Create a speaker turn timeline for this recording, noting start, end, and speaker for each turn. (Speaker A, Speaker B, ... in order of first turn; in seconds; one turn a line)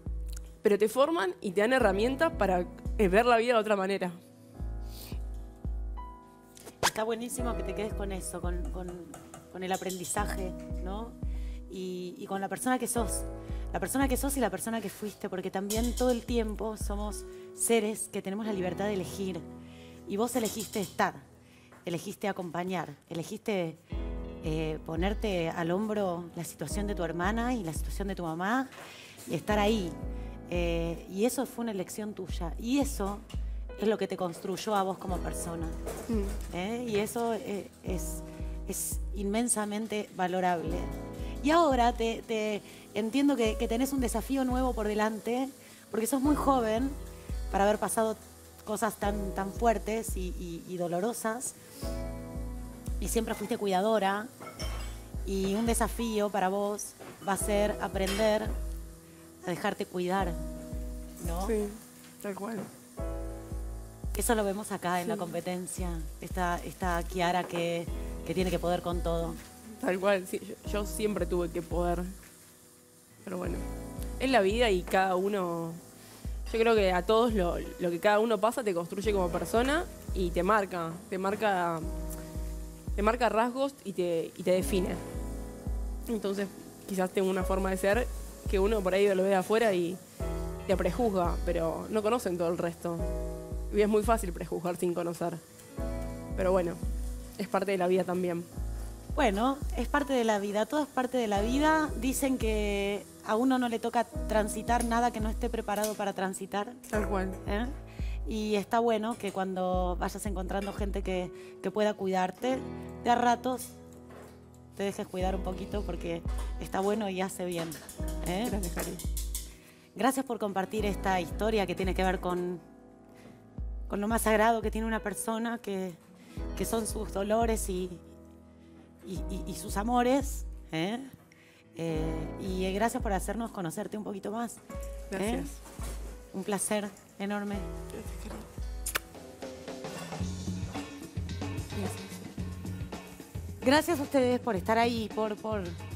Speaker A: 0.6-4.2
Speaker B: 6.8-11.2
Speaker B: 11.7-19.4
Speaker B: 20.1-21.3
Speaker B: 21.9-23.8
Speaker B: 24.4-28.7
Speaker B: 29.3-30.0
Speaker B: 30.5-33.2
Speaker B: 33.8-35.8
Speaker A: 36.1-36.4
Speaker B: 36.5-47.0
Speaker B: 47.5-51.5
Speaker B: 53.0-54.3
Speaker B: 55.2-58.5
Speaker B: 59.4-60.4
Speaker B: 61.2-61.6
Speaker A: 61.4-62.7
Speaker B: 64.1-69.4
Speaker A: 65.0-65.3
Speaker A: 69.8-72.1
Speaker A: 73.2-73.7
Speaker A: 74.2-75.8
Speaker A: 76.5-81.9
Speaker A: 83.0-85.0
Speaker A: 86.1-90.0
Speaker A: 90.7-93.1
Speaker A: 93.7-95.4
Speaker A: 96.3-96.8
Speaker A: 97.4-98.5
Speaker B: 99.2-106.8
Speaker A: 106.9-107.4
Speaker B: 107.4-107.7
Speaker B: 108.3-113.7
Speaker B: 114.8-118.6
Speaker A: 118.5-119.0
Speaker B: 120.0-122.6
Speaker B: 123.9-126.0
Speaker B: 126.6-128.1
Speaker B: 129.0-131.1
Speaker B: 131.8-134.6
Speaker A: 135.1-135.6
Speaker B: 135.2-135.5
Speaker B: 136.3-137.7
Speaker A: 137.9-138.5
Speaker A: 141.8-142.3
Speaker B: 143.6-145.8